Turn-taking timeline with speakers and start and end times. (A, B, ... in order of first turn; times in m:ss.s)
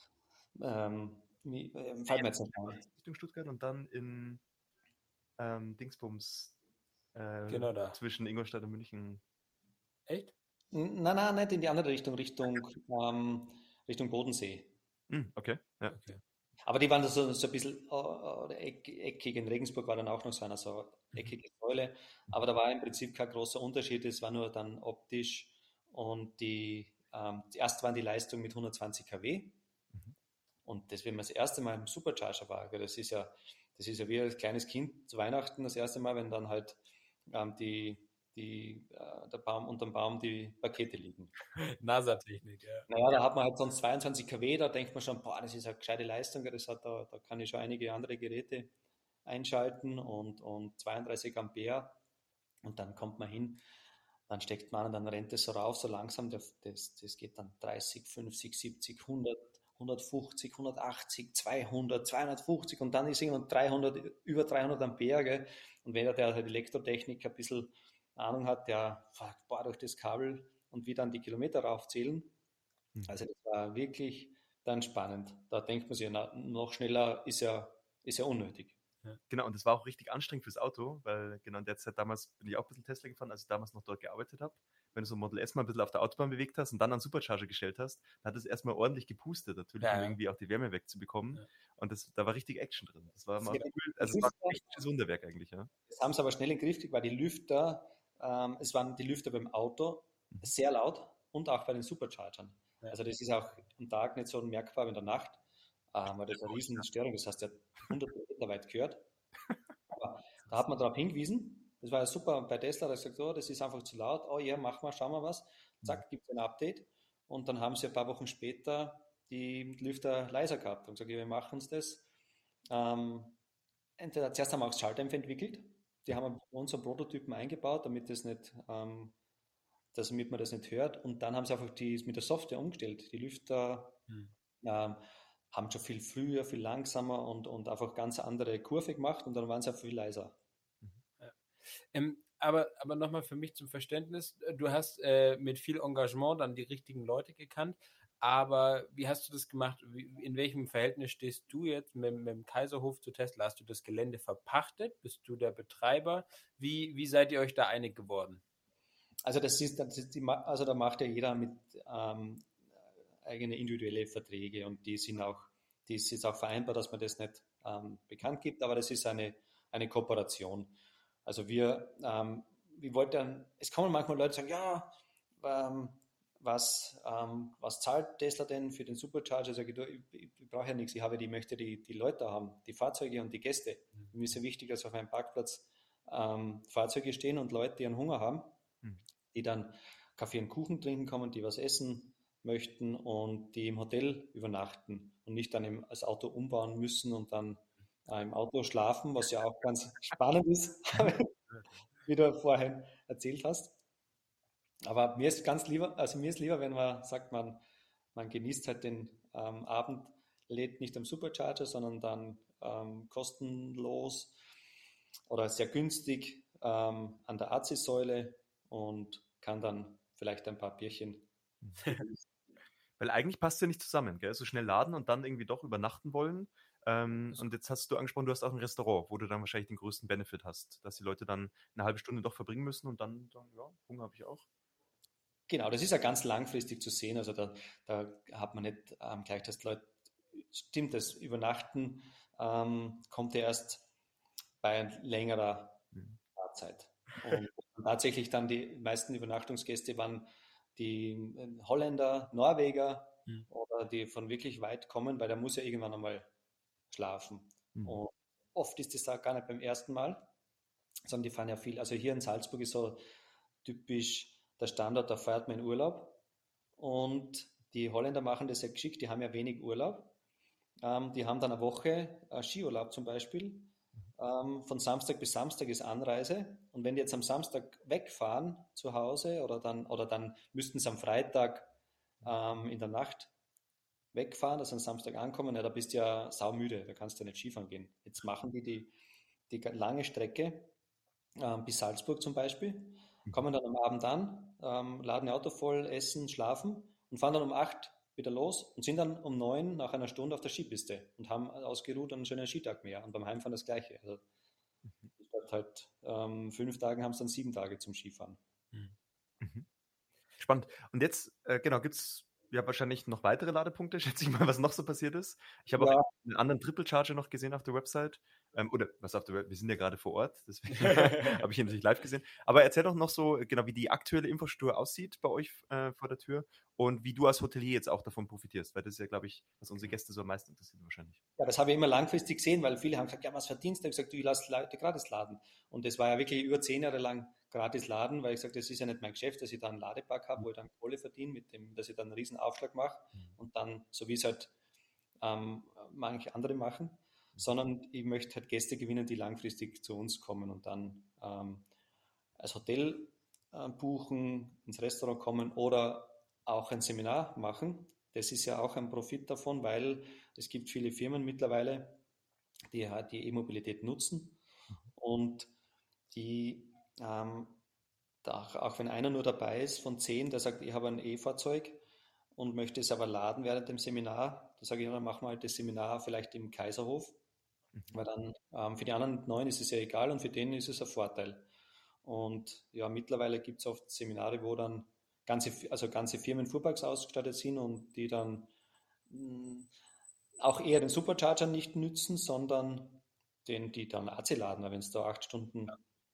0:00.6-0:02.8 A
0:02.8-0:04.4 B
0:05.4-0:06.5 B
0:07.1-0:09.2 B
0:07.5-0:08.0 C
0:10.1-0:10.3 C
0:10.7-0:14.7 A
0:15.1-0:16.0 B
0:15.9-0:16.2 C
0:16.6-0:29.6 A
0:30.6-0:36.8 A
0:37.3-0:41.3 A
0:41.6-0:42.9 C
0:42.9-0:48.7 A
0:49.2-0:52.0 A
0:52.6-0:53.6 A
0:54.3-1:12.3 A
1:13.1-1:18.8 A
1:19.3-1:35.7 B
1:29.8-1:30.2 C
1:33.4-1:34.6 A
1:35.9-1:45.4 A
1:45.9-1:49.0 A
1:49.9-2:02.0 A
2:02.7-2:03.4 A
2:04.0-2:09.1 A
2:09.9-2:14.0 A
2:14.6-2:20.4 A
2:21.2-2:38.4 C
2:39.2-2:42.5 A
2:43.2-3:08.6 A
3:09.3-3:21.3 A
3:21.0-3:21.8 B
3:22.0-3:23.8 A
3:24.8-3:27.6 A
3:28.1-3:34.4 A
3:35.3-3:41.3 A
3:41.6-3:42.0 B
3:41.9-3:42.2 A
3:43.0-3:54.4 B
3:55.5-4:03.8 A
4:04.6-4:05.8 A
4:06.3-4:16.3 A
4:16.9-4:20.2 A
4:21.1-4:23.0 A
4:23.6-4:26.2 A
4:26.8-4:30.1 A
4:30.8-4:41.7 A
4:42.2-4:43.3 A
4:44.1-4:48.9 A
4:49.5-4:50.7 A
4:51.4-5:04.2 A
5:05.2-5:08.4 A
5:09.4-5:09.7 B
5:10.4-5:31.2 B
5:15.7-5:16.1 A
5:20.8-5:21.4 C
5:31.4-5:44.5 A
5:45.2-5:51.6 A
5:52.4-6:02.0 A
6:02.7-6:04.4 A
6:04.9-6:05.5 A
6:06.1-6:07.6 A
6:08.2-6:11.8 A
6:12.4-6:17.2 A
6:17.9-6:21.5 A
6:22.0-6:28.5 A
6:29.1-6:29.7 A
6:30.4-6:35.8 A